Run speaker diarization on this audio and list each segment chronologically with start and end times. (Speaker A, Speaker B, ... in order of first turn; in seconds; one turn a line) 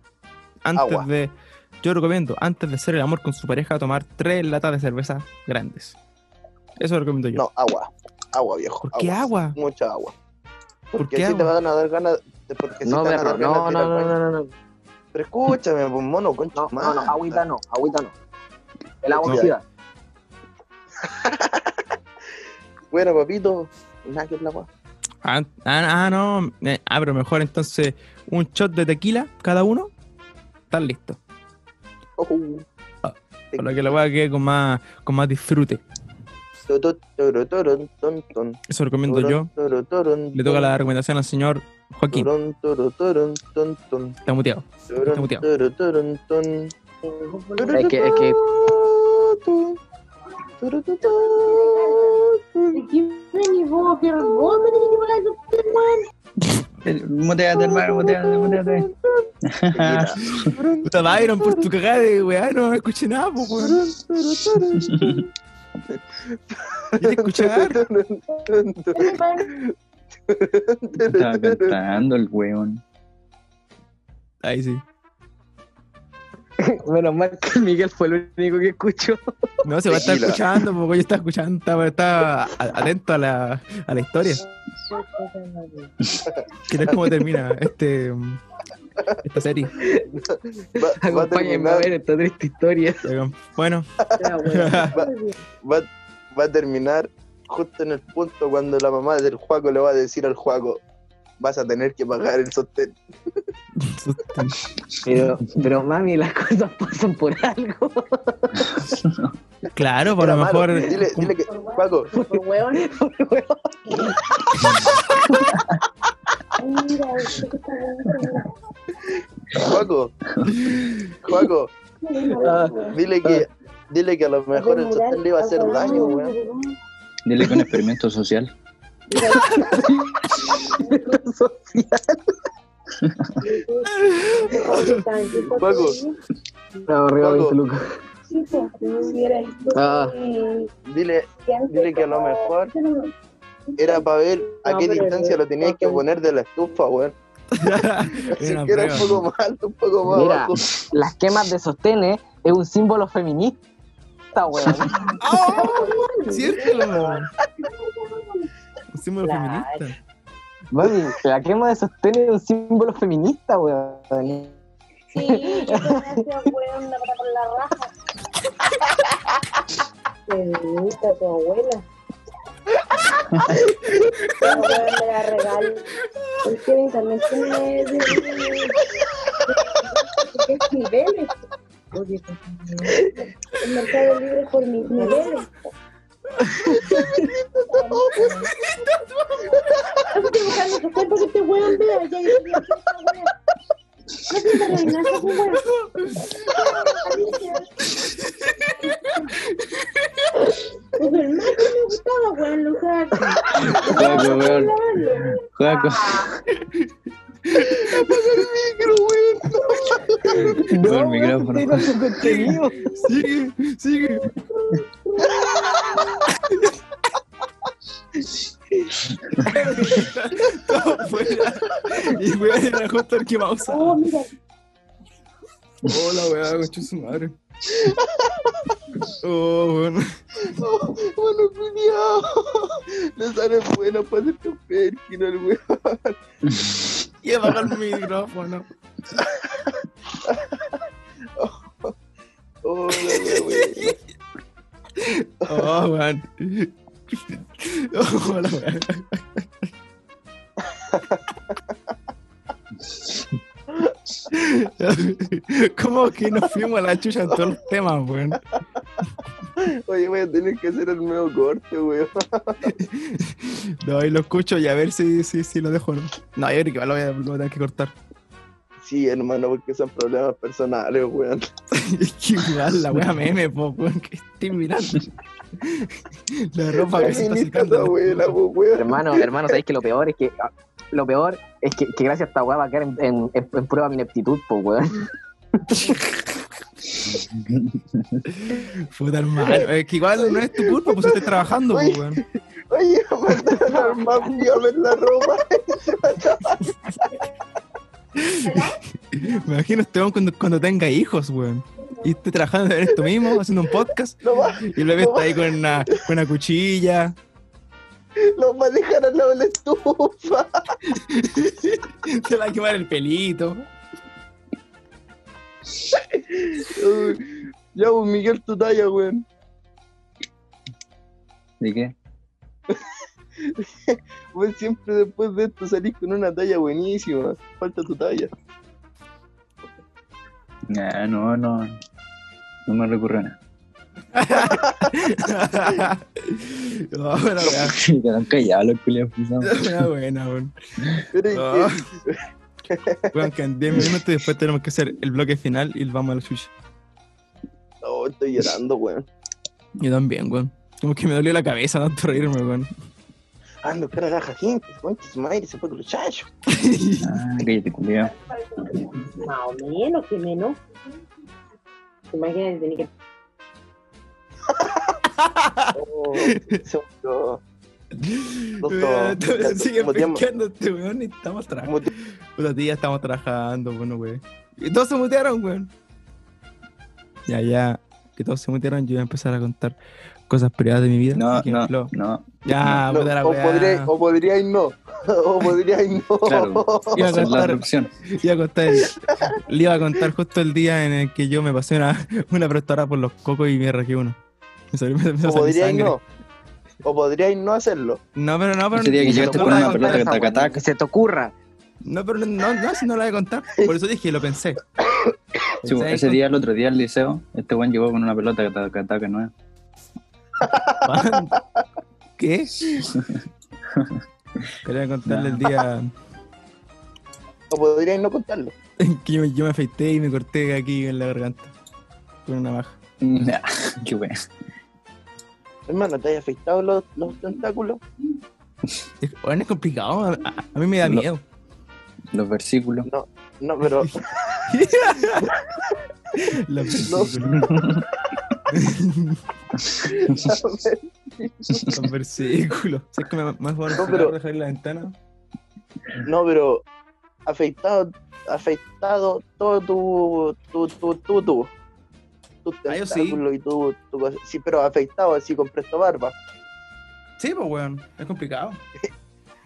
Speaker A: 0.6-6.0
Speaker B: 0.7-1.1
Speaker A: 6.8-7.4
Speaker B: 7.3-10.1
Speaker A: 8.8-9.6
Speaker B: 10.9-14.2
Speaker A: 11.0-11.5
Speaker C: 12.8-14.5
Speaker B: 15.1-17.4
Speaker C: 16.6-18.1
Speaker C: 19.0-19.6
Speaker B: 19.1-19.5
Speaker B: 21.0-21.8
Speaker B: 22.9-24.7
Speaker A: 25.2-29.9
Speaker A: 30.7-31.2
Speaker B: 32.2-32.6
Speaker A: 33.0-35.8
Speaker B: 33.5-33.9
Speaker B: 36.7-40.7
Speaker A: 38.7-39.5
Speaker A: 40.3-42.3
Speaker B: 42.1-44.1
Speaker A: 44.2-45.4
Speaker B: 44.9-46.7
Speaker D: 47.0-48.3
Speaker B: 47.6-49.8
Speaker C: 47.7-48.4
Speaker B: 50.6-52.8
Speaker D: 51.0-52.2
Speaker D: 52.7-56.0
Speaker E: 56.8-58.9
Speaker D: 57.7-58.5
Speaker E: 59.5-60.5
Speaker B: 59.7-61.6
Speaker A: 60.3-63.8
Speaker B: 63.6-65.2
Speaker E: 64.8-65.2
Speaker B: 65.9-69.7
Speaker A: 67.0-67.8
Speaker D: 68.9-69.5
Speaker B: 70.3-71.8
Speaker E: 71.0-72.8
Speaker A: 74.4-74.8
Speaker C: 76.6-79.2
Speaker A: 79.6-84.4
Speaker B: 79.9-80.4
Speaker D: 84.8-85.9
Speaker B: 86.3-87.0
Speaker A: 86.7-88.4
Speaker A: 89.2-89.7
Speaker C: 89.8-90.1
Speaker B: 90.2-91.9
Speaker C: 90.8-93.1
Speaker A: 93.0-93.9
Speaker D: 94.2-95.3
Speaker A: 94.4-94.9
Speaker B: 95.6-100.8
Speaker B: 101.4-102.9
Speaker A: 103.8-104.6
Speaker C: 105.0-109.0
Speaker E: 109.0-109.3
Speaker A: 109.7-111.3
Speaker B: 110.2-112.1
Speaker D: 111.5-112.9
Speaker C: 112.1-115.6
Speaker D: 116.6-118.5
Speaker B: 119.5-120.1
Speaker A: 120.7-120.9
Speaker B: 121.2-121.7
Speaker D: 122.0-123.0
Speaker C: 122.3-123.4
Speaker B: 122.9-126.3
Speaker D: 124.5-126.8
Speaker E: 127.2-128.5
Speaker D: 129.1-131.0
Speaker C: 129.2-132.3
Speaker D: 133.4-136.2
Speaker A: 134.0-135.0
Speaker B: 135.4-136.0
Speaker C: 136.9-137.8
Speaker B: 137.2-137.6
Speaker D: 138.3-140.7
Speaker C: 139.7-140.1
Speaker B: 140.9-142.7
Speaker D: 141.3-143.1
Speaker D: 143.8-146.0
Speaker B: 143.8-147.1
Speaker A: 147.5-149.1
Speaker B: 148.3-150.6
Speaker E: 148.9-149.2
Speaker C: 150.1-153.6
Speaker C: 154.3-155.1
Speaker A: 155.2-157.3
Speaker D: 155.3-157.2
Speaker D: 157.8-158.5
Speaker A: 158.9-159.9
Speaker D: 159.2-159.9
Speaker C: 160.7-164.5
Speaker D: 165.1-167.9
Speaker C: 165.2-166.2
Speaker D: 170.3-171.8
Speaker D: 174.3-175.9
Speaker D: 176.4-178.8
Speaker D: 179.5-181.3
Speaker D: 181.9-185.7
Speaker C: 186.7-187.2
Speaker B: 186.7-188.5
Speaker D: 187.7-188.5
Speaker A: 188.6-188.9
Speaker B: 189.5-190.3
Speaker D: 190.1-193.3
Speaker D: 194.3-195.7
Speaker A: 195.7-196.3
Speaker D: 196.5-197.8
Speaker A: 198.4-198.9
Speaker D: 198.9-199.2
Speaker D: 201.0-206.4
Speaker E: 203.8-206.3
Speaker A: 206.6-206.9
Speaker A: 207.5-207.8
Speaker B: 207.5-210.6
Speaker D: 209.8-210.5
Speaker C: 210.5-212.9
Speaker E: 210.8-212.0
Speaker A: 212.2-214.3
Speaker D: 214.2-216.3
Speaker B: 215.3-216.1
Speaker A: 216.4-216.7
Speaker A: 219.4-224.0
Speaker D: 223.7-224.3
Speaker A: 225.8-227.3
Speaker B: 227.7-228.7
Speaker A: 229.1-230.2
Speaker B: 230.4-236.1
Speaker E: 236.4-237.0
Speaker A: 237.2-238.7
Speaker B: 240.2-240.8
Speaker B: 241.4-241.9
Speaker B: 242.6-243.9
Speaker A: 243.1-243.9
Speaker A: 245.0-249.5
Speaker B: 250.8-251.5
Speaker A: 254.3-258.4
Speaker B: 259.6-262.7
Speaker A: 262.7-267.9
Speaker B: 268.8-271.5
Speaker A: 271.7-275.1
Speaker A: 275.6-278.4
Speaker B: 276.9-279.6
Speaker C: 278.8-286.0
Speaker E: 287.0-288.2
Speaker A: 288.4-292.2
Speaker B: 290.2-296.8
Speaker C: 293.3-294.5
Speaker A: 298.1-307.1
Speaker B: 304.2-306.0
Speaker B: 308.4-310.5
Speaker A: 310.9-313.6
Speaker B: 316.4-319.2
Speaker E: 321.6-321.9
Speaker B: 323.4-328.3
Speaker E: 330.7-331.8
Speaker E: 332.7-333.4
Speaker A: 334.1-337.7
Speaker B: 334.4-334.9
Speaker E: 337.4-339.9
Speaker A: 339.4-340.5
Speaker B: 341.1-343.3
Speaker A: 341.3-341.8
Speaker A: 343.1-346.5
Speaker B: 347.8-349.1
Speaker A: 349.8-352.7
Speaker B: 353.6-356.3
Speaker A: 356.5-357.2
Speaker E: 357.0-358.1
Speaker D: 358.6-360.6
Speaker D: 362.1-362.9
Speaker A: 365.2-365.7
Speaker B: 365.7-367.4
Speaker A: 368.0-375.7
Speaker B: 368.6-370.2
Speaker B: 371.6-371.9
Speaker A: 377.3-379.7
Speaker A: 380.3-381.9
Speaker E: 381.1-382.8
Speaker A: 382.4-383.9
Speaker B: 382.9-387.3
Speaker E: 386.2-387.9
Speaker A: 386.9-394.2
Speaker B: 388.8-389.2
Speaker A: 394.7-396.0
Speaker B: 395.2-396.0
Speaker B: 396.8-398.0
Speaker A: 398.1-400.1
Speaker E: 398.7-400.6
Speaker C: 399.1-401.3
Speaker A: 401.8-404.6
Speaker A: 405.6-406.2
Speaker E: 405.6-409.3
Speaker B: 410.4-411.2
Speaker A: 410.8-411.3
Speaker A: 412.2-412.8
Speaker E: 413.7-414.0
Speaker A: 414.6-415.9
Speaker E: 415.1-415.5
Speaker B: 417.5-418.5
Speaker A: 418.8-421.5
Speaker A: 422.2-422.8
Speaker E: 423.0-424.2
Speaker B: 425.7-427.8
Speaker A: 429.0-431.2
Speaker E: 432.1-432.9
Speaker B: 432.9-434.0
Speaker A: 434.4-435.4
Speaker A: 436.1-437.5
Speaker B: 436.8-437.2
Speaker E: 437.2-437.8
Speaker A: 438.5-439.2
Speaker B: 439.8-441.7
Speaker E: 441.5-441.8
Speaker A: 441.7-444.9
Speaker B: 443.8-444.1
Speaker B: 446.0-446.6
Speaker B: 447.2-451.5
Speaker B: 452.4-456.1
Speaker A: 452.7-453.2
Speaker A: 457.2-458.6